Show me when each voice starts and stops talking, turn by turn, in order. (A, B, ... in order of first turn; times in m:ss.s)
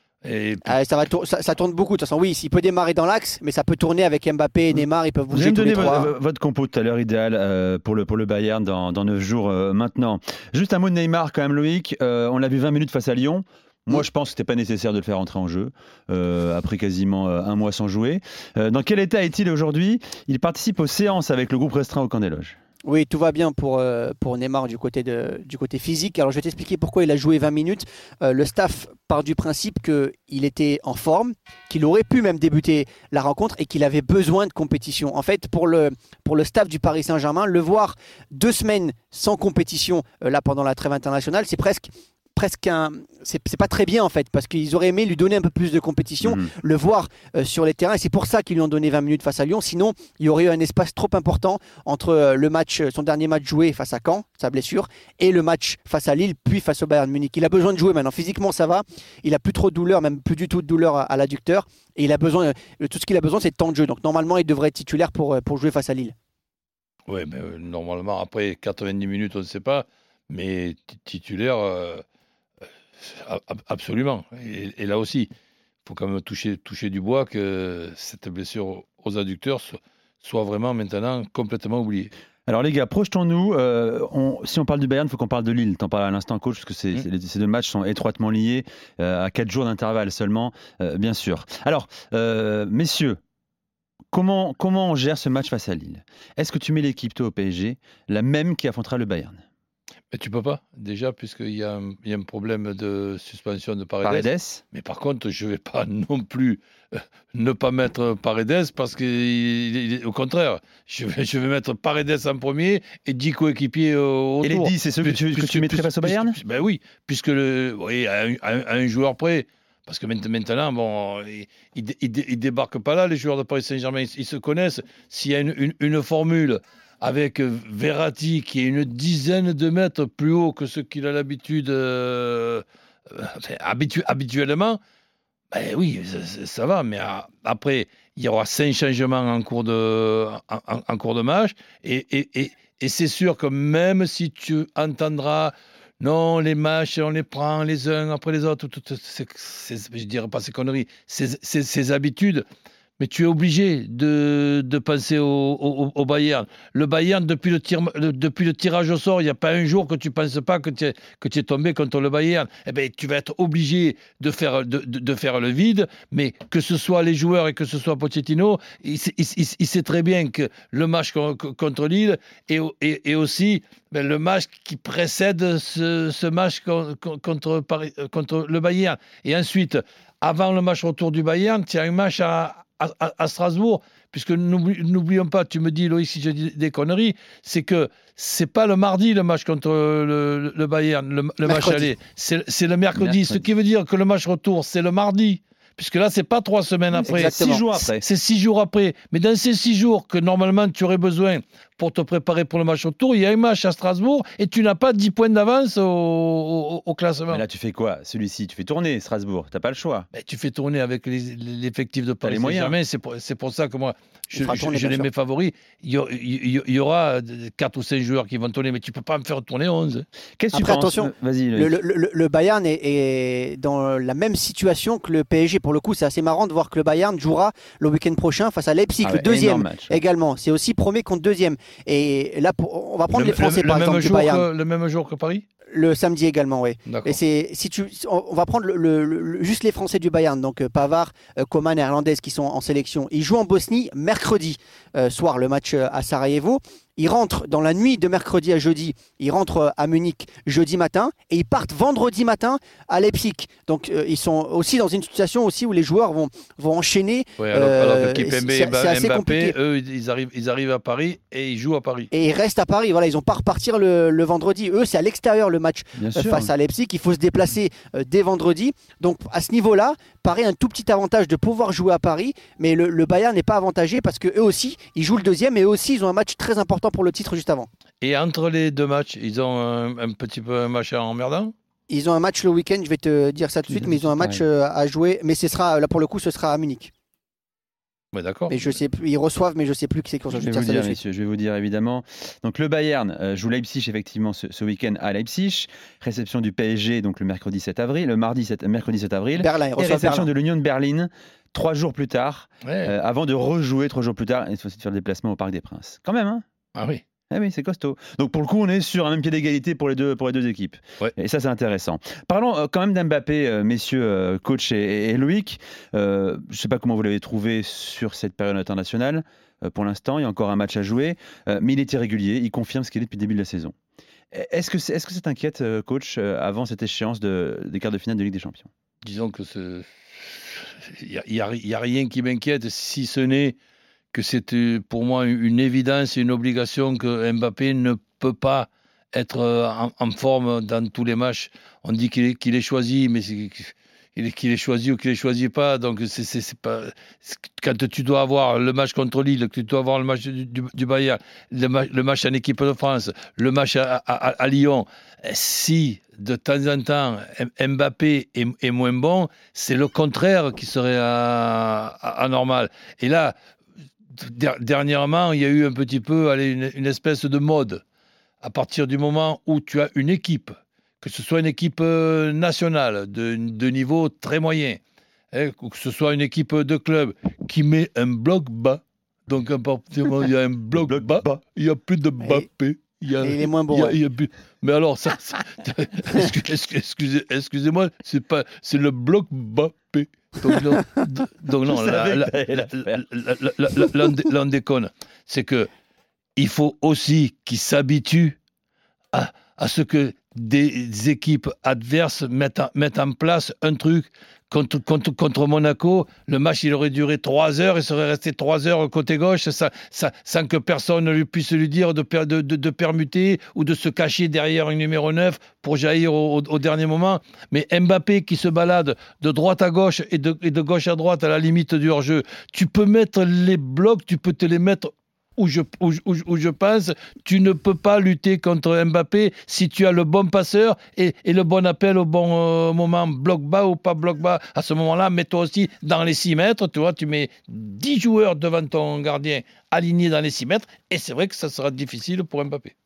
0:00.2-0:00.8 A
0:00.6-0:06.1 B
0:04.8-0:22.6 C
0:22.8-1:06.1 B
0:46.2-0:46.5 C
1:07.1-1:12.0 A
1:13.0-1:15.3 A
1:15.8-1:22.1 A
1:22.5-1:33.2 C
1:34.1-1:39.4 C
1:40.1-2:14.8 A
1:44.0-1:44.6 C
1:54.4-1:56.4 C
2:15.5-2:32.4 A
2:33.0-3:27.4 A
3:11.4-3:11.9 B
3:12.9-3:13.4 C
3:16.9-3:18.0 C
3:17.0-3:17.6 B
3:27.3-3:30.1 C
3:30.1-3:40.0 A
3:32.2-3:32.8 C
3:34.3-3:35.1 B
3:40.4-3:41.8 C
3:40.5-3:54.5 B
3:49.0-3:50.0 C
3:53.1-3:55.4 A
3:55.7-4:19.6 B
3:56.9-3:57.2 A
4:17.4-4:22.1 A
4:22.1-4:37.7 B
4:26.0-4:26.5 C
4:38.0-4:41.5 A
4:41.9-4:46.9 B
4:43.7-4:44.4 C
4:48.1-4:48.6 A
4:48.5-4:51.0 B
4:50.3-5:06.4 C
4:59.4-5:00.3 B
5:02.6-5:02.9 A
5:06.7-5:07.0 A
5:07.3-5:23.7 C
5:24.3-5:28.7 C
5:29.0-5:33.6 A
5:34.1-6:03.3 A
6:04.1-6:07.8 A
6:08.4-6:14.8 A
6:15.3-6:35.7 A
6:20.9-6:21.4 C
6:23.2-6:24.0 B
6:31.6-6:33.0 C
6:36.4-6:38.4 A
6:39.1-7:22.7 A